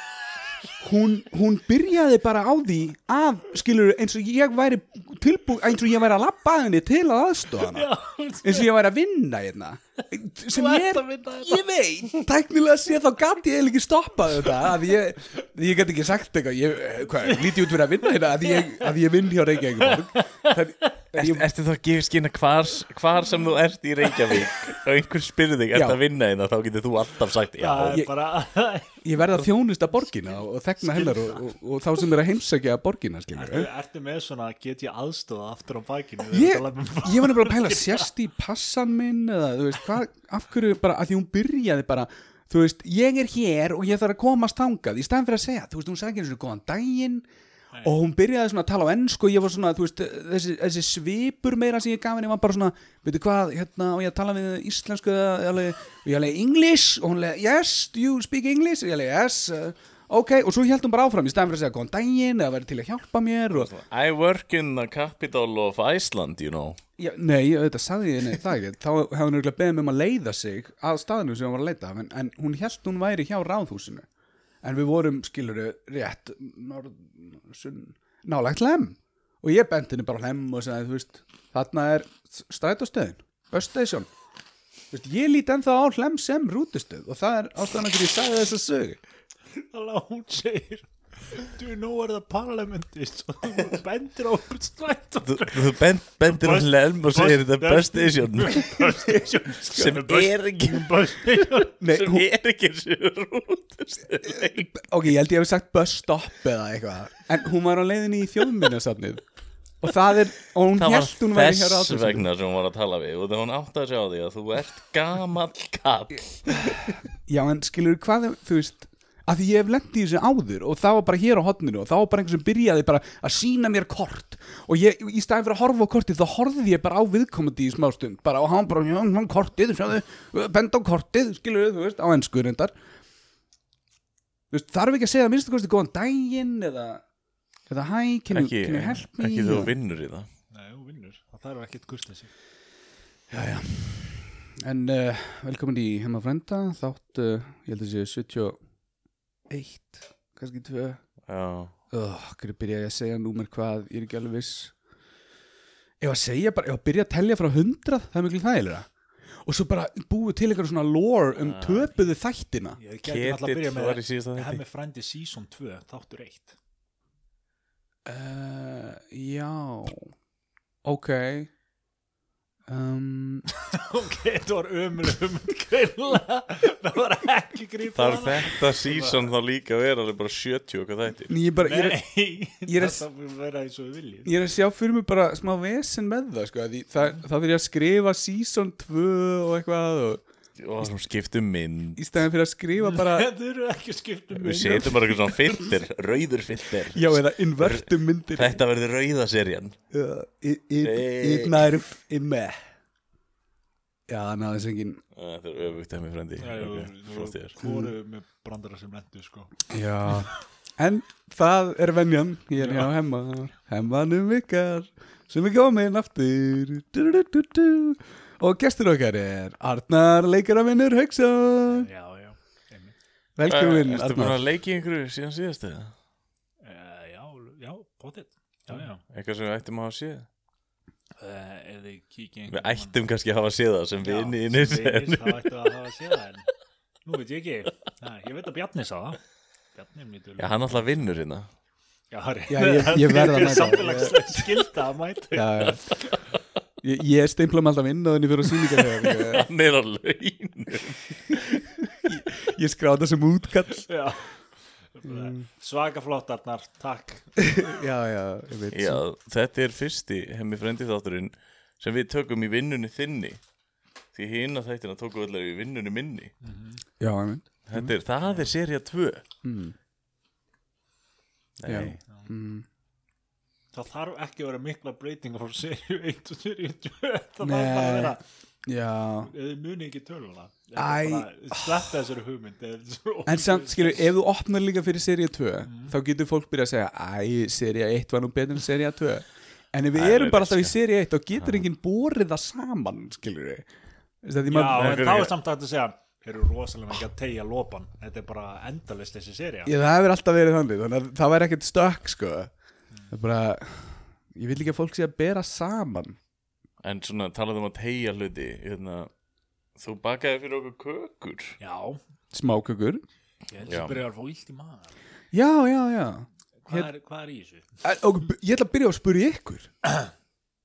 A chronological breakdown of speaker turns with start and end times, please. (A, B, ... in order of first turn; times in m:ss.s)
0:00.8-0:07.9 A
0:07.6-0:08.7 B
0:08.4-0:21.5 A
0:10.5-0:11.7 B
0:18.1-0:18.9 B
0:19.8-0:20.9 B
0:21.2-0:28.0 C
0:25.7-0:26.0 A
0:27.6-0:29.0 B
0:29.0-0:33.7 A
0:30.8-0:31.5 B
0:33.3-0:38.1 B
0:36.3-0:47.2 A
0:47.7-0:48.0 B
0:47.8-1:03.7 A
1:03.5-1:06.8 C
1:07.0-1:14.0 A
1:14.6-1:24.1 A
1:24.9-1:29.0 A
1:29.5-1:41.7 B
1:35.2-1:44.9 C
1:41.8-1:42.2 A
1:44.2-1:49.2 A
1:49.8-1:52.2 A
1:50.8-1:57.0 C
1:56.5-2:12.7 A
2:14.5-2:17.0 A
2:17.7-2:19.7 A
2:18.3-2:20.3 C
2:20.5-2:22.3 B
2:23.3-2:28.6 A
2:29.5-2:31.0 A
2:31.3-2:31.7 C
2:31.9-2:34.7 A
2:36.0-2:38.9 A
2:39.4-2:42.8 A
2:41.4-2:41.9 C
2:42.8-2:46.6 B
2:43.0-2:44.6 C
2:48.0-2:50.1 A
2:50.8-2:51.5 A
2:52.7-2:53.5 A
2:53.7-2:59.3 B
2:57.9-3:01.3 C
3:01.3-3:02.0 A
3:01.6-3:04.3 B
3:02.7-3:03.0 A
3:04.2-3:10.2 A
3:10.6-3:12.2 C
3:12.0-3:13.3 A
3:12.8-3:15.2 B
3:14.3-3:19.8 C
3:16.9-3:18.6 A
3:19.9-3:22.6 A
3:20.8-3:21.8 C
3:24.1-3:25.0 A
3:25.1-3:27.5 C
3:26.4-3:29.5 B
3:27.6-3:27.9 A
3:29.7-3:41.9 A
3:32.6-3:32.9 B
3:41.7-3:42.9 B
3:43.4-3:44.4 A
3:43.4-3:45.9 C
3:46.6-3:49.0 B
3:49.1-3:50.2 C
3:51.2-3:53.0 B
3:52.5-3:55.5 C
3:54.0-3:56.5 B
3:57.0-3:59.2 B
3:59.7-4:01.0 B
4:00.4-4:01.5 C
4:02.1-4:06.1 B
4:02.5-4:04.6 A
4:05.3-4:05.8 A
4:06.8-4:09.4 A
4:09.0-4:11.8 C
4:12.0-4:13.9 A
4:13.9-4:17.3 B
4:15.0-4:15.4 A
4:17.4-4:19.0 A
4:18.7-4:23.4 C
4:24.1-4:26.3 C
4:26.4-4:26.8 B
4:27.0-4:27.9 A
4:27.7-4:29.2 C
4:28.2-4:28.5 B
4:29.4-4:29.8 A
4:31.6-4:32.0 C
4:31.6-4:32.6 A
4:33.7-4:38.2 B
4:37.4-4:39.3 A
4:39.2-4:44.1 B
4:40.8-4:41.8 A
4:43.2-4:53.7 A
4:45.6-4:45.9 B
4:49.9-4:50.8 C
4:54.2-4:55.2 A
4:54.5-4:59.7 B
4:54.7-4:55.3 C
4:59.6-5:02.5 A
5:03.1-5:06.2 A
5:06.8-5:09.1 C
5:09.8-5:11.6 C
5:11.6-5:12.0 B
5:12.3-5:13.0 A
5:13.5-5:14.9 B
5:13.6-5:14.0 C
5:15.3-5:16.9 A
5:16.6-5:17.7 B
5:17.8-5:19.7 A